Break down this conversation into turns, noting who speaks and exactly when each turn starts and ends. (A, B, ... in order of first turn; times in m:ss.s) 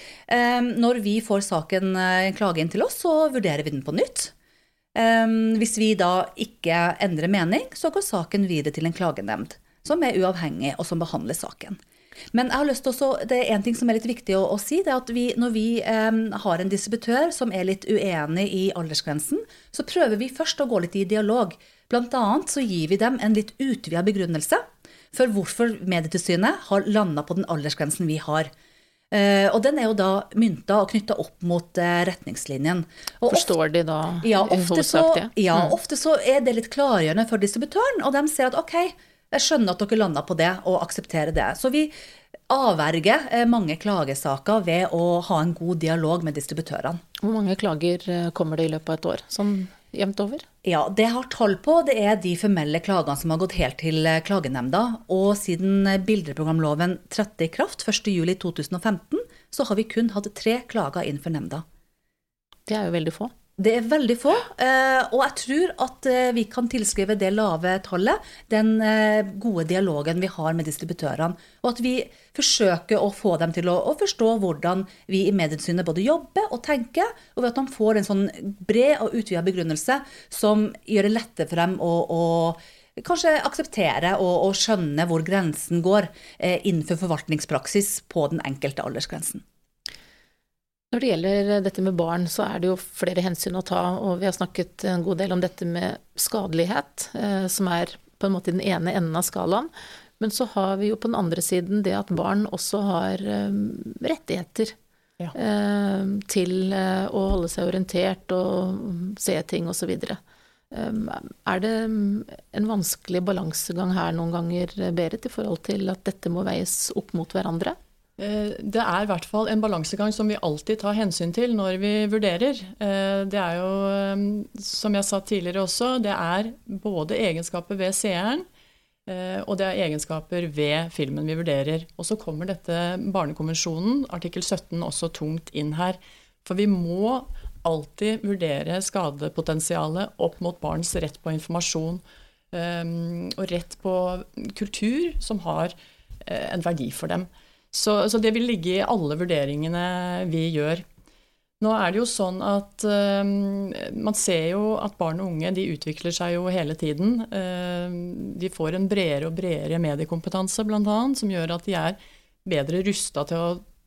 0:00.3-0:04.3 A
0:04.9-0:11.8 A
0:12.3-0:28.5 A
0:29.1-0:33.5 A
0:33.3-0:35.7 B
0:34.2-0:41.9 A
0:42.5-0:47.0 A
0:47.2-0:50.4 B
0:50.6-1:01.6 A
1:02.7-1:03.3 B
1:03.6-1:29.4 A
1:30.9-1:44.8 B
1:45.3-1:50.2 B
1:50.7-1:57.8 B
1:58.2-2:08.4 C
2:09.1-2:25.7 C
2:26.2-2:30.8 C
2:31.6-2:43.6 C